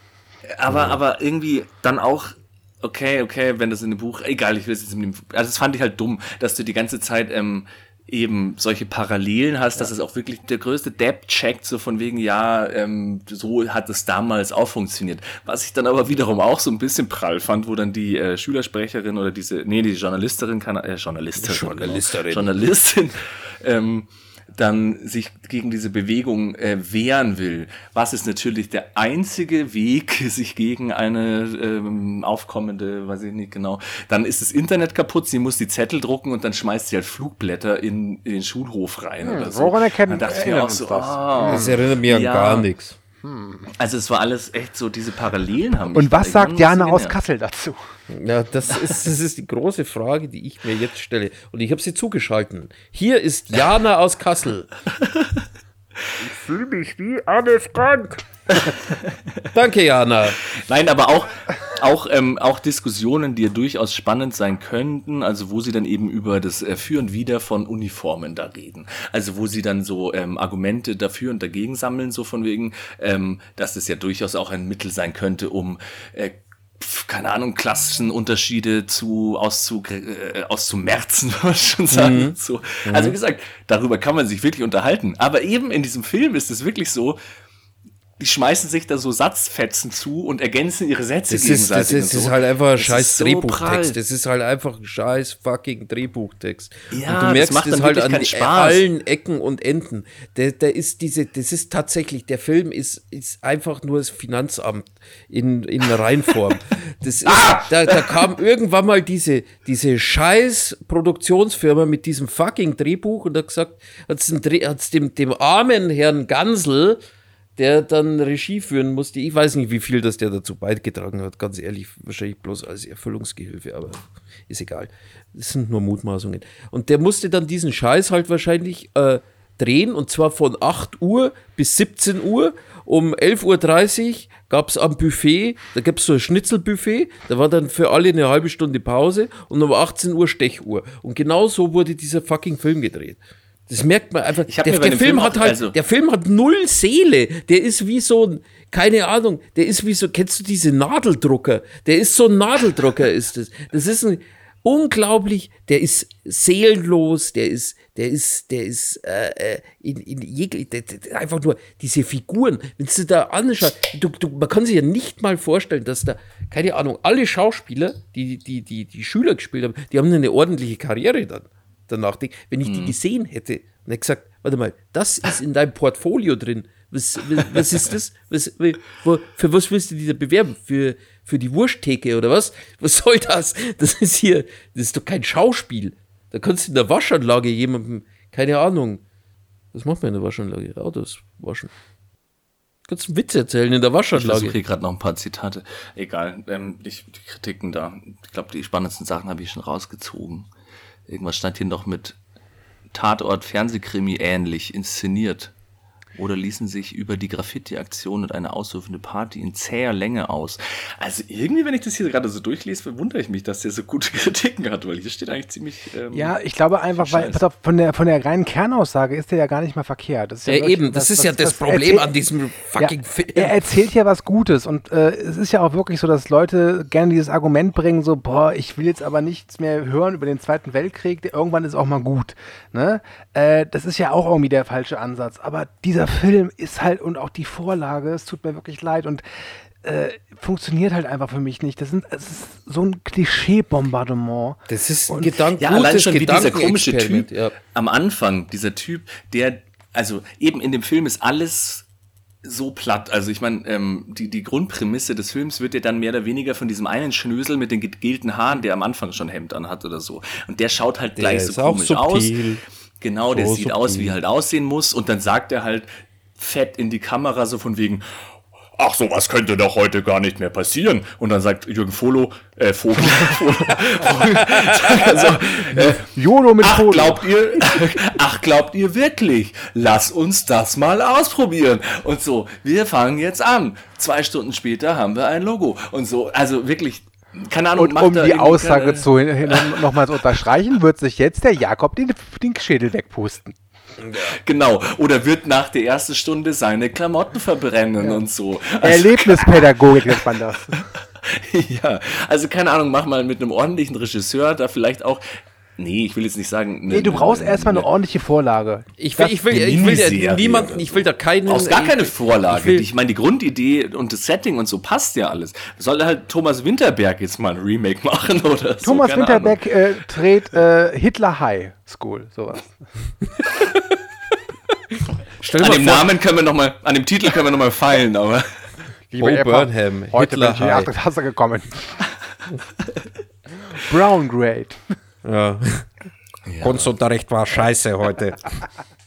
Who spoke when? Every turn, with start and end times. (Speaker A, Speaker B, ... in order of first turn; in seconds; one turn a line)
Speaker A: 0.5-42.7
Speaker B: 21.4-22.6
Speaker C: 39.2-41.6
Speaker B: 41.5-43.0
Speaker C: 43.2-43.7
Speaker A: 43.8-47.1
Speaker C: 45.9-47.8
Speaker B: 48.1-54.7
Speaker A: 55.0-55.4
Speaker B: 56.2-58.5
Speaker A: 58.5-59.2
Speaker B: 59.5-60.4
Speaker A: 60.5-87.2
Speaker B: 81.9-83.2
Speaker A: 88.2-94.0
Speaker B: 91.3-117.0
Speaker A: 96.9-98.8
Speaker A: 107.3-108.1
Speaker B: 117.6-189.0
Speaker A: 144.5-145.8
Speaker A: 172.7-172.9
Speaker B: 189.7-191.7
Speaker B: 192.9-194.6
Speaker A: 194.1-200.5
Speaker A: 201.1-202.2
Speaker A: 202.9-205.5
Speaker A: 206.2-216.3
Speaker C: 216.1-222.1
Speaker A: 217.0-217.4
Speaker B: 220.5-223.5
Speaker C: 222.8-239.2
Speaker C: 239.8-245.3
Speaker B: 244.7-247.6
Speaker A: 245.6-251.8
Speaker A: 252.4-262.4
Speaker B: 261.2-262.6
Speaker A: 263.0-268.0
Speaker B: 263.3-264.2
Speaker A: 268.8-276.1
Speaker B: 274.0-275.4
Speaker C: 275.7-277.3
Speaker A: 276.6-290.2
Speaker C: 287.8-293.6
Speaker B: 294.0-294.4
Speaker A: 294.2-305.2
Speaker C: 298.8-300.8
Speaker A: 305.8-307.9
Speaker C: 306.9-308.9
Speaker B: 309.0-312.9
Speaker A: 309.2-319.6
Speaker C: 318.8-322.9
Speaker C: 325.4-326.1
Speaker A: 325.6-328.5
Speaker C: 329.1-332.0
Speaker B: 329.2-330.9
Speaker C: 333.7-334.9
Speaker B: 335.2-335.9
Speaker A: 336.5-336.9
Speaker B: 336.6-338.6